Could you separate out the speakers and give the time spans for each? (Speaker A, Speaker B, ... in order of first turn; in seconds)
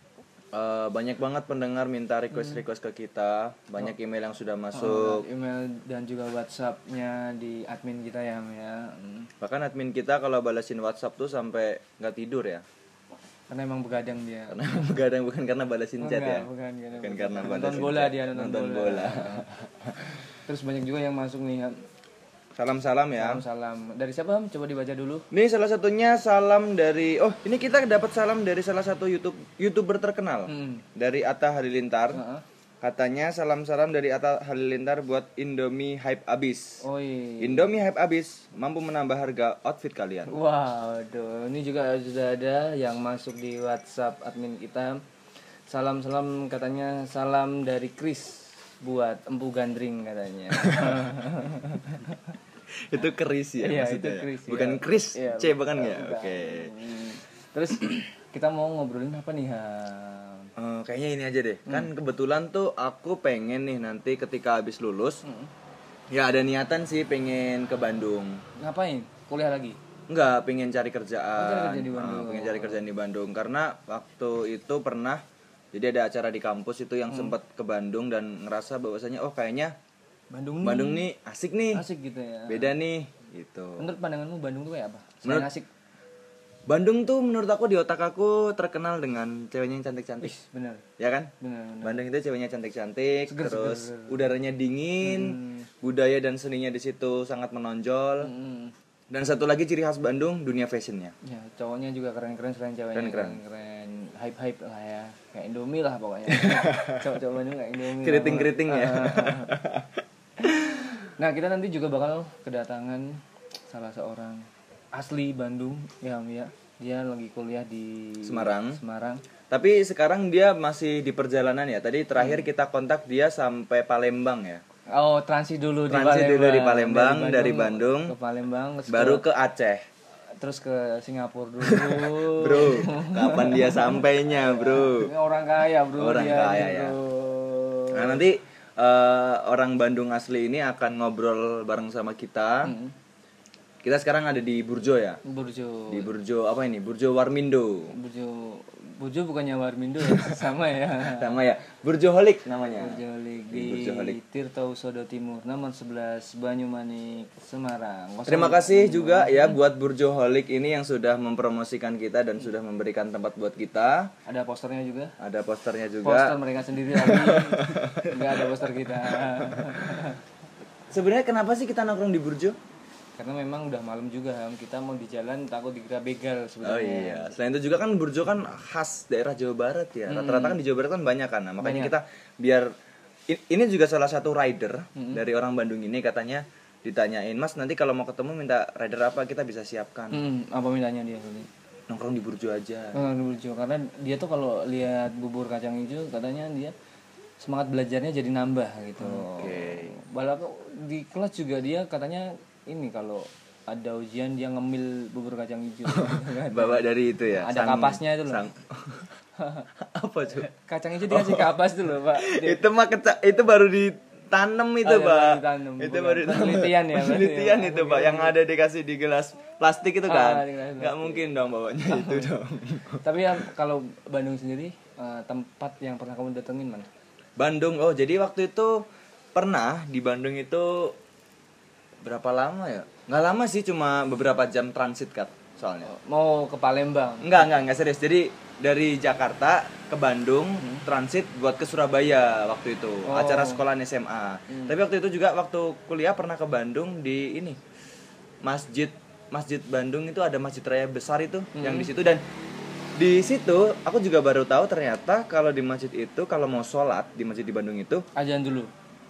Speaker A: 0.5-5.2, 9.4-12.6, 14.5-20.0, 22.6-23.4, 25.3-32.2, 32.8-36.8, 37.4-40.4, 50.7-51.1, 52.7-56.7, 60.6-65.2, 66.1-68.4, 70.1-75.2, 75.7-79.8, 80.6-81.8, 82.5-83.9, 86.7-90.3, 91.0-91.3, 91.8-98.3, 99.1-101.1, 103.0-103.4, 106.4-107.0, 108.0-110.0, 118.2-118.8, 119.5-124.6, 125.9-128.1, 128.9-129.8, 131.6-135.1, 136.0-136.9, 137.9-142.7, 143.8-145.2, 145.9-147.9, 150.0-150.4, 151.0-154.2, 158.3-164.1, 165.2-166.4, 166.9-168.6, 169.2-170.1, 170.9-172.6, 176.6-182.7, 183.3-190.2, 191.9-193.0, 199.0-199.9, 205.9-209.2, 209.8-210.5, 211.1-223.4, 227.4-230.9, 232.0-235.9, 237.2-247.6, 248.4-252.2, 253.0-258.0
Speaker B: 2.3-2.6, 4.7-9.3, 13.5-14.6, 16.0-19.5, 20.3-21.9, 23.2-25.3, 30.5-30.9, 32.1-32.4, 36.8-37.7, 40.3-45.0, 45.7-52.3, 53.6-60.5, 65.2-65.5, 68.6-69.8, 71.4-72.8, 77.1-77.3, 80.3-81.0, 81.7-82.8, 83.8-85.7, 90.2-90.8, 91.4-92.0, 93.3-94.3, 95.0-95.7, 98.2-98.7, 101.2-109.5, 110.5-119.2, 124.9-129.2, 130.4-138.2, 142.6-142.9, 145.2-146.1, 147.9-151.3, 152.8-159.6, 164.3-165.2, 166.0-170.2, 173.2-177.4, 180.1-180.6, 181.6-181.9, 185.0-185.2, 190.1-191.5, 192.9-196.7, 197.4-206.8, 207.4-208.4, 209.4-209.7, 210.4-212.6, 214.8-218.3, 220.1-221.2, 221.9-222.3, 223.0-226.9, 235.8-237.4, 243.1-243.6, 244.5-244.8, 251.6-251.9, 258.2-258.7